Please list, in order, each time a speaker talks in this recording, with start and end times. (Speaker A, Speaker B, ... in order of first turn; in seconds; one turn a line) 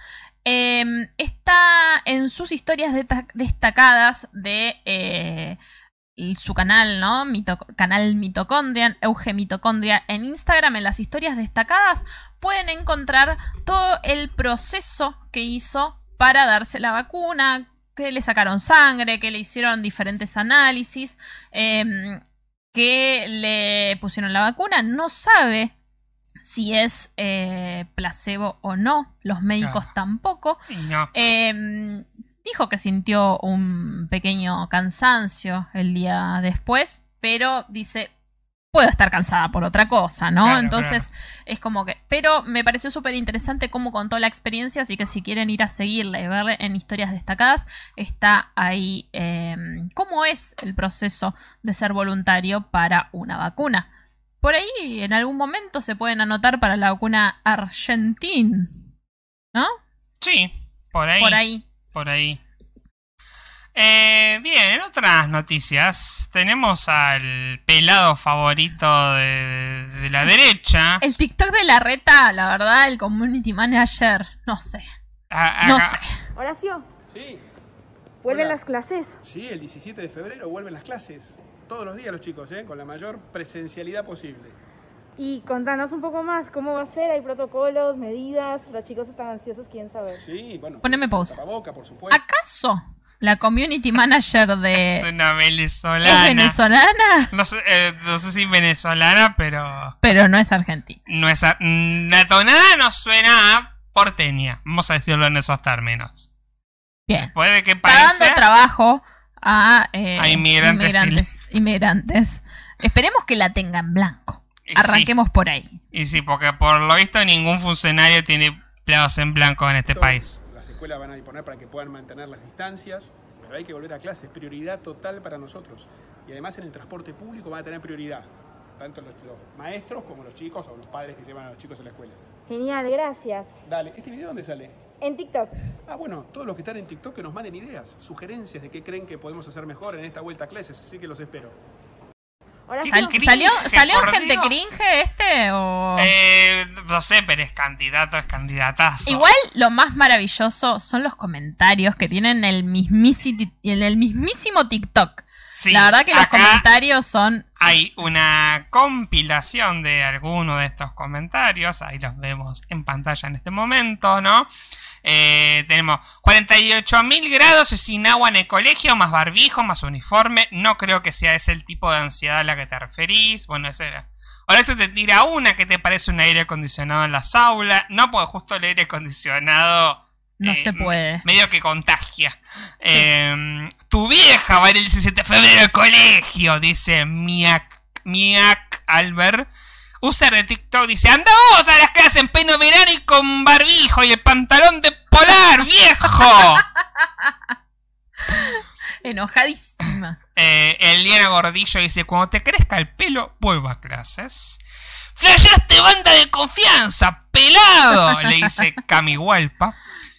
Speaker A: 0.4-5.6
Speaker A: 6.2-22.2
Speaker A: 22.7-25.7
Speaker A: 26.4-30.6
Speaker B: 29.6-29.9
Speaker B: 30.7-31.1
Speaker A: 31.1-38.1
Speaker A: 38.7-53.9
Speaker B: 40.4-41.1
Speaker A: 54.4-58.8
Speaker B: 60.2-61.4
Speaker A: 61.2-61.6
Speaker B: 61.9-62.4
Speaker B: 63.7-71.0
Speaker A: 71.0-74.9
Speaker B: 75.3-76.0
Speaker A: 75.6-76.2
Speaker C: 76.4-76.8
Speaker D: 77.1-77.4
Speaker C: 78.2-79.1
Speaker D: 78.2-78.6
Speaker D: 79.2-84.5
Speaker C: 85.2-90.2
Speaker D: 90.2-92.2
Speaker A: 90.8-91.4
Speaker A: 92.1-95.0
Speaker B: 94.8-96.6
Speaker A: 96.0-97.3
Speaker B: 97.3-99.9
Speaker A: 100.0-101.0
Speaker B: 101.1-106.2
Speaker B: 107.2-108.4
Speaker A: 107.8-115.8
Speaker B: 110.2-111.2
Speaker B: 114.7-115.1
Speaker B: 115.9-120.4
Speaker D: 119.9-132.2
Speaker C: 132.5-133.5
Speaker D: 133.7-134.8
Speaker C: 135.0-135.6
Speaker D: 135.9-141.6
Speaker C: 142.7-143.2
Speaker B: 142.8-144.6
Speaker A: 142.8-146.1
Speaker B: 146.0-149.3
Speaker A: 149.1-157.4
Speaker B: 155.6-156.6
Speaker B: 157.6-164.5
Speaker B: 165.0-189.5
Speaker A: 180.4-181.2
Speaker B: 190.0-196.6
Speaker A: 197.0-197.3
Speaker A: 198.2-200.2
Speaker B: 200.4-204.6
Speaker B: 205.1-209.8